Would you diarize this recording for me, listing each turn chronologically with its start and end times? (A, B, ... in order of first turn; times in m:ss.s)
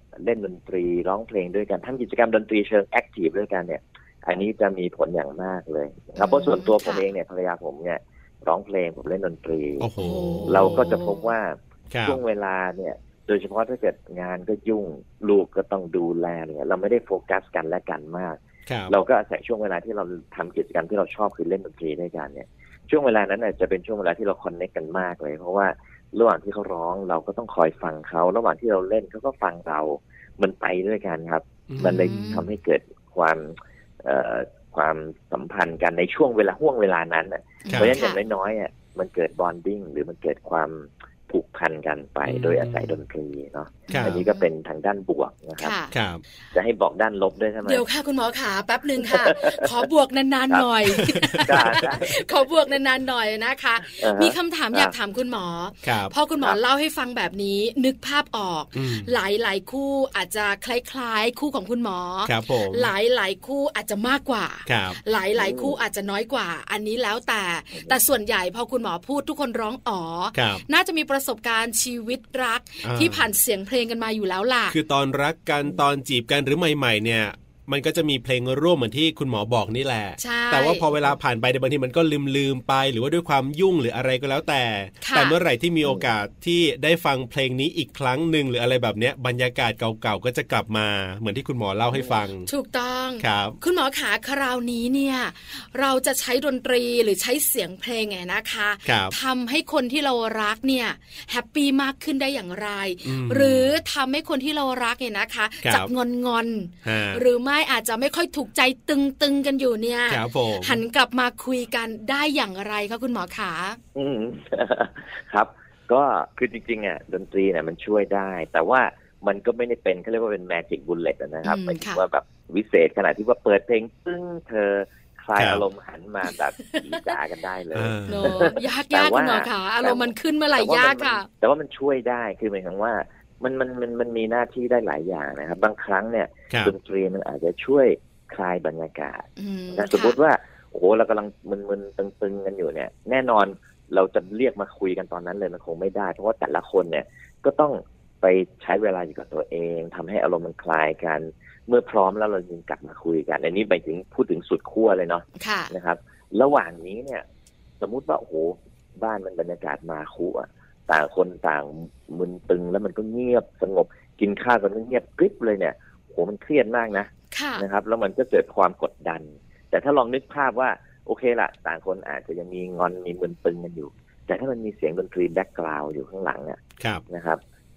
0:00.2-0:09.9 A
0:06.2-0:07.1 B
0:09.8-0:11.0 C
0:10.0-0:11.3 B
0:10.4-0:18.4 A
0:11.9-0:12.2 C
0:18.7-0:19.0 C
0:18.9-0:45.8 A
0:31.7-0:32.3 C
0:31.8-0:32.5 B
0:37.6-0:38.2 B
0:37.7-0:38.0 C
0:42.3-0:43.0 C
0:43.9-0:44.5 B
0:43.9-0:44.2 C
0:45.6-0:45.9 B
0:45.9-0:46.2 C
0:46.5-0:47.9 A
0:47.6-1:14.8 B
0:49.0-0:49.9 A
0:50.9-0:51.9 C
0:51.4-0:52.3 A
0:53.9-0:54.9 A
0:55.8-0:56.1 C
0:58.8-0:59.1 C
1:02.3-1:02.9 C
1:04.7-1:05.0 C
1:05.4-1:05.8 A
1:10.3-1:10.6 C
1:12.8-1:13.3 C
1:14.7-1:32.5 C
1:20.2-1:20.8 B
1:25.0-1:25.4 B
1:32.0-1:53.8 B
1:33.2-1:33.6 C
1:38.8-1:39.2 C
1:43.0-1:43.7 C
1:45.6-1:45.9 C
1:46.8-1:47.2 C
1:50.1-1:50.8 C
1:54.0-2:37.2 A
2:01.4-2:02.0 B
2:05.4-2:05.6 C
2:07.7-2:08.5 C
2:08.1-2:11.3 B
2:16.5-2:16.8 C
2:19.4-2:20.2 B
2:35.4-2:35.7 B
2:37.8-2:57.4 A
2:47.3-2:47.6 B